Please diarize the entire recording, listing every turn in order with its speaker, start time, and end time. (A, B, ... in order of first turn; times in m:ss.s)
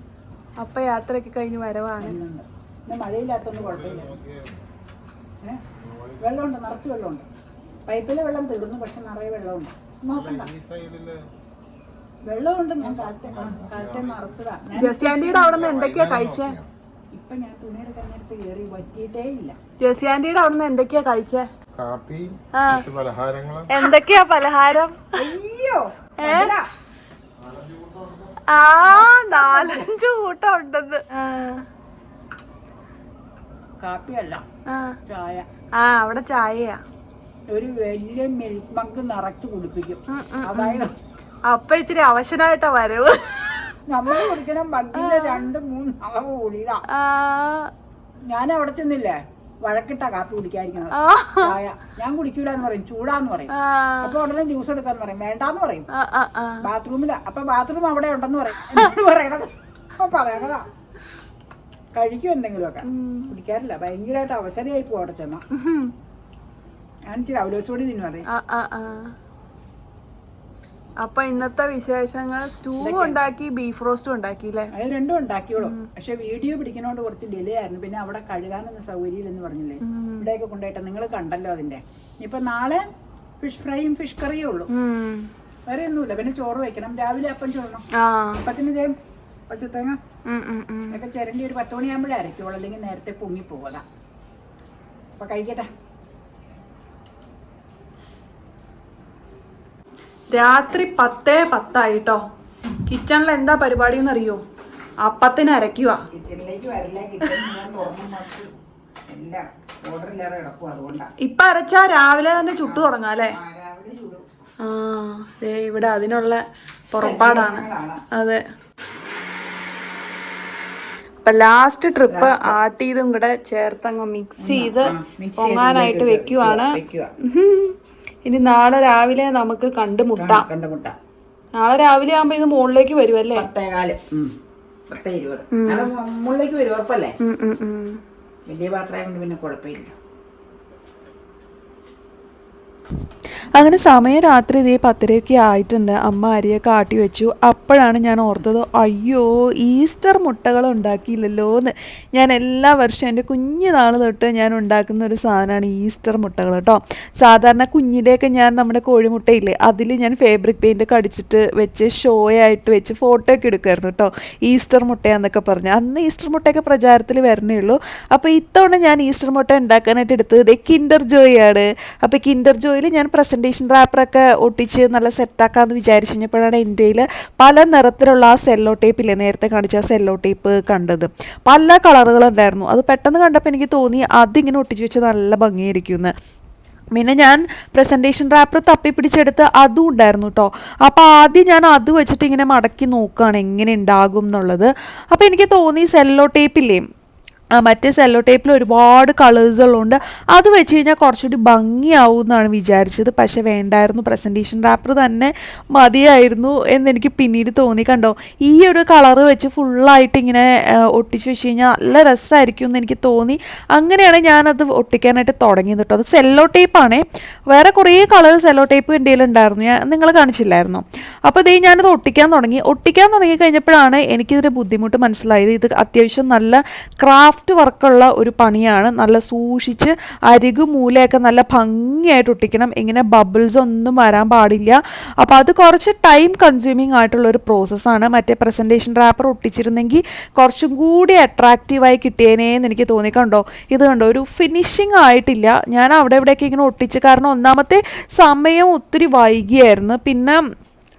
0:00.6-0:02.2 A
0:02.0-0:04.2 B
0:03.4-0:04.7 C
0:05.8-0:06.3 C
0:06.2-0:07.2 B
0:07.9-0:10.5 B
0:10.1-0:11.2 C
0:12.3-0:15.6 B
0:12.8-0:14.4 C
0:14.8-0:16.6 A
0:15.5-0:16.7 C
0:17.1-0:19.6 B
0:19.8-0:21.5 A
0:21.8-0:23.7 C
0:22.6-0:22.8 A
0:23.7-0:25.2 A
0:25.2-0:26.7 B
0:26.2-0:26.5 A
0:27.4-0:28.4 C
0:28.5-0:31.6 A
0:28.8-0:29.9 B
0:33.8-0:34.4 B
0:34.7-0:35.0 A
0:35.1-0:35.5 B
0:35.8-0:36.8 A
0:37.5-0:40.9 B
0:40.1-0:40.9 A
0:41.5-0:44.3 A
0:43.9-0:46.8 B
0:44.9-0:45.5 A
0:46.9-0:47.7 A
0:48.3-0:55.9 B
0:50.9-0:51.6 A
0:53.5-0:54.2 A
0:55.9-0:56.6 A
0:56.6-1:00.7 B
1:02.0-1:05.4 B
1:02.9-1:03.3 A
1:05.5-1:05.9 A
1:07.1-1:08.3 B
1:08.3-1:09.1 A
1:11.0-1:14.7 A
1:12.8-1:13.2 B
1:14.7-1:22.8 B
1:15.6-1:15.9 A
1:19.8-1:20.3 A
1:23.4-1:24.7 B
1:24.7-1:25.3 A
1:25.7-1:27.8 B
1:27.9-1:28.4 A
1:28.4-1:28.9 B
1:29.5-1:30.0 B
1:30.3-1:31.0 A
1:30.9-1:33.8 B
1:35.2-1:35.7 B
1:40.3-1:42.2 A
1:42.9-1:44.4 A
1:45.0-1:46.0 A
1:46.1-1:48.5 B
1:49.1-1:51.1 B
1:51.2-1:53.3 A
1:52.6-1:54.2 B
1:54.6-1:58.4 A
1:56.9-1:58.0 B
2:01.2-2:10.4 A
2:02.1-2:02.6 B
2:04.4-2:07.1 B
2:10.2-2:11.0 B
2:11.6-2:13.5 A
2:13.4-2:14.3 B
2:14.9-2:17.2 B
2:15.5-2:15.9 A
2:17.2-2:18.0 A
2:18.5-2:20.0 B
2:23.5-3:06.1 D
3:06.9-3:16.8 D
3:17.6-4:10.4 D